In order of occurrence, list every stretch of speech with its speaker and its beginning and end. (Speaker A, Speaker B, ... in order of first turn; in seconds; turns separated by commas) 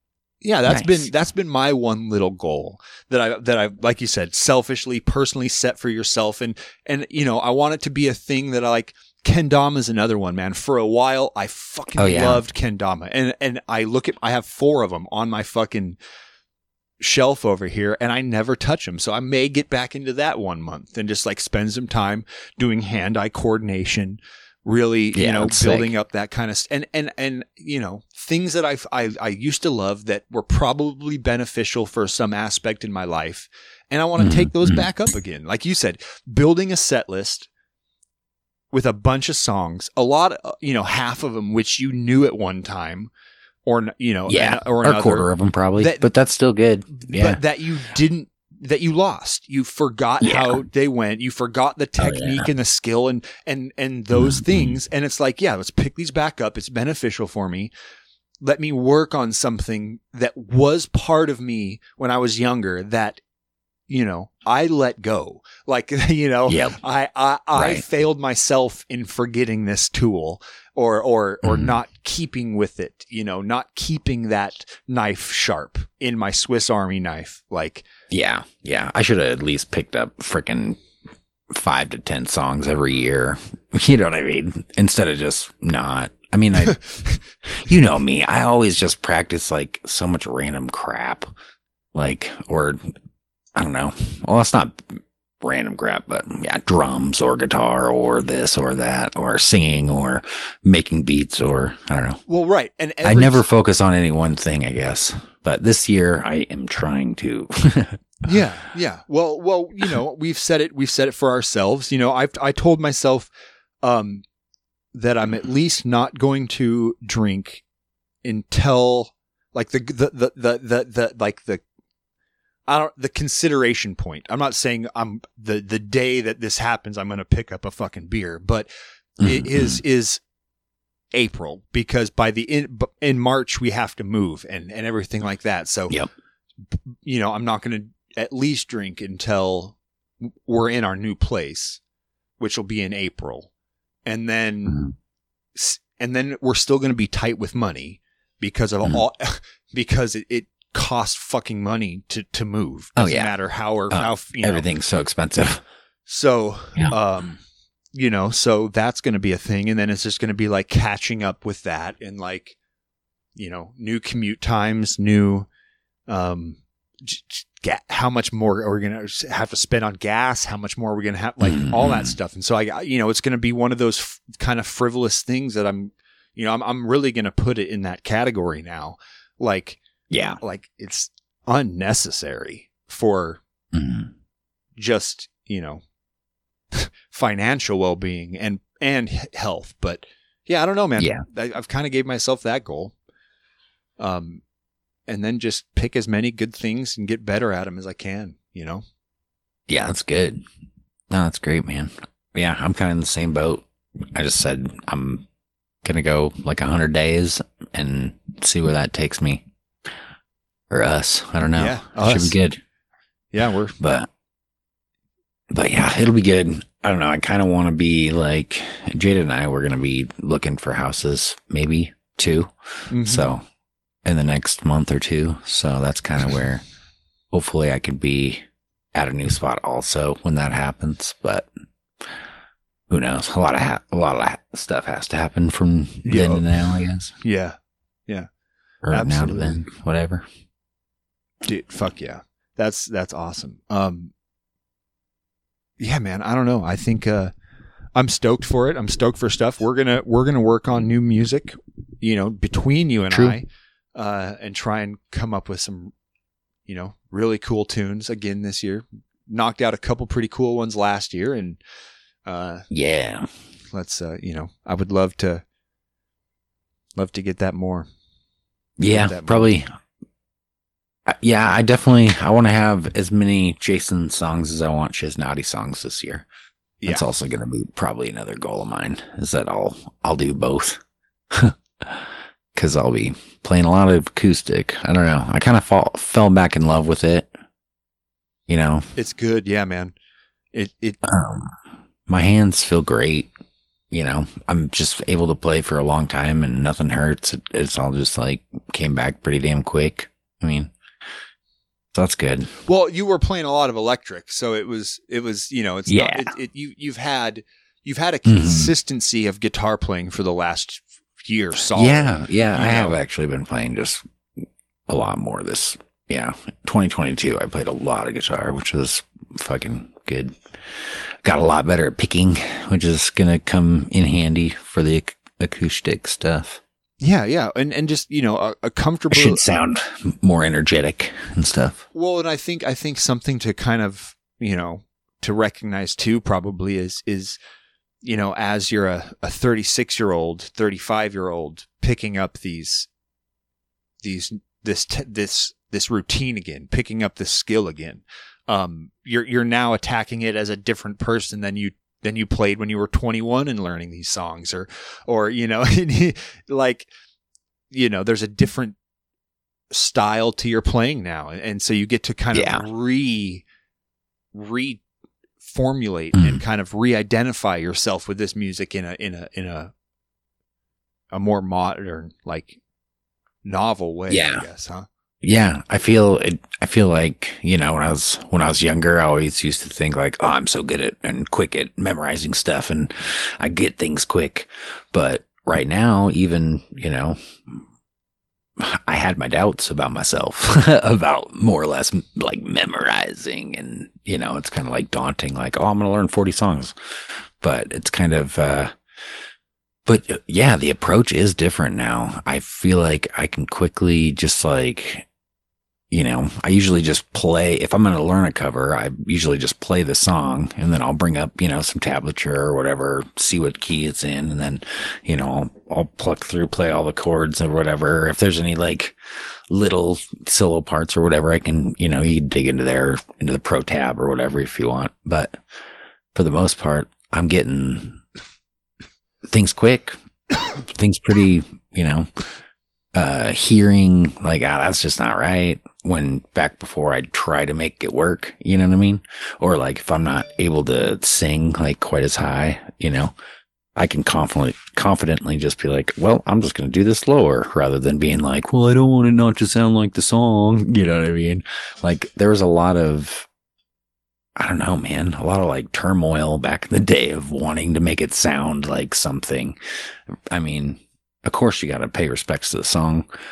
Speaker A: 0.4-16.0, Speaker B: 0.7-1.1, Speaker B: 12.0-12.4, Speaker A: 17.0-37.5, Speaker B: 25.1-25.9, Speaker B: 34.2-34.9, Speaker A: 38.7-43.1, Speaker A: 43.7-46.1, Speaker B: 44.3-47.4, Speaker A: 47.0-57.7, Speaker B: 50.2-50.6, Speaker B: 52.0-52.5, Speaker B: 54.1-54.7, Speaker A: 58.4-63.2, Speaker A: 63.9-77.9, Speaker B: 66.5-66.8, Speaker B: 67.6-67.8, Speaker B: 71.4-71.8, Speaker B: 78.1-80.8, Speaker B: 81.5-86.8, Speaker A: 86.7-87.2, Speaker B: 87.5-91.3, Speaker B: 91.9-92.8, Speaker B: 93.5-102.2, Speaker A: 102.3-103.5, Speaker B: 103.0-108.1, Speaker A: 108.2-113.3, Speaker A: 113.8-114.2, Speaker A: 114.9-117.6, Speaker A: 118.2-121.6, Speaker A: 122.7-128.7, Speaker B: 129.2-129.8, Speaker A: 129.2-130.2, Speaker A: 131.1-136.0, Speaker A: 137.0-141.8, Speaker A: 142.4-143.5, Speaker A: 144.1-144.9, Speaker A: 145.6-154.7, Speaker B: 153.0-153.3, Speaker B: 153.9-155.6, Speaker A: 156.1-157.4, Speaker A: 157.9-162.6, Speaker A: 163.4-165.5, Speaker A: 166.1-179.8, Speaker B: 171.4-172.1, Speaker B: 180.1-180.4, Speaker A: 180.4-183.4, Speaker B: 183.7-184.1, Speaker A: 184.8-185.8, Speaker A: 186.7-192.9, Speaker B: 191.0-191.2, Speaker A: 194.0-194.4, Speaker A: 195.1-198.8, Speaker B: 199.7-200.4, Speaker B: 201.1-205.3, Speaker B: 205.8-209.5, Speaker B: 210.7-212.6, Speaker A: 211.6-212.4, Speaker A: 213.3-213.8, Speaker B: 213.8-214.1, Speaker B: 215.5-223.4, Speaker A: 222.9-223.3, Speaker B: 224.0-226.6, Speaker B: 227.3-231.5, Speaker B: 232.9-237.1, Speaker A: 236.1-237.6, Speaker B: 238.8-240.3, Speaker A: 238.9-239.6, Speaker A: 241.4-244.1, Speaker A: 245.8-247.3, Speaker A: 248.0-255.9, Speaker B: 253.1-253.4, Speaker A: 256.7-261.6, Speaker A: 262.3-262.6, Speaker B: 262.7-263.3, Speaker A: 263.7-265.4, Speaker A: 267.0-267.9, Speaker B: 268.8-269.7, Speaker A: 268.9-269.5, Speaker B: 271.1-276.3, Speaker B: 276.9-287.3, Speaker B: 288.5-288.9, Speaker A: 289.0-289.9, Speaker A: 290.5-291.0, Speaker B: 291.0-293.3, Speaker B: 293.9-300.7, Speaker B: 301.9-302.5, Speaker A: 302.7-313.0, Speaker B: 305.9-306.3, Speaker B: 308.3-308.7, Speaker B: 311.7-326.6, Speaker A: 327.0-329.4, Speaker B: 329.1-331.8, Speaker A: 331.9-337.4, Speaker A: 338.0-342.9, Speaker A: 344.0-356.9, Speaker A: 357.7-358.8, Speaker A: 359.7-363.4, Speaker B: 362.3-362.6, Speaker A: 364.3-364.8, Speaker A: 365.4-369.7, Speaker B: 366.2-366.4, Speaker A: 371.1-372.6, Speaker A: 373.4-374.9, Speaker B: 374.1-374.5, Speaker B: 375.2-387.6, Speaker B: 388.6-398.7, Speaker B: 399.9-405.1, Speaker B: 405.9-419.0, Speaker B: 419.5-425.4, Speaker B: 426.1-428.0, Speaker B: 429.3-432.1, Speaker B: 432.9-443.1, Speaker B: 443.8-453.3, Speaker B: 454.4-459.6, Speaker B: 460.3-463.1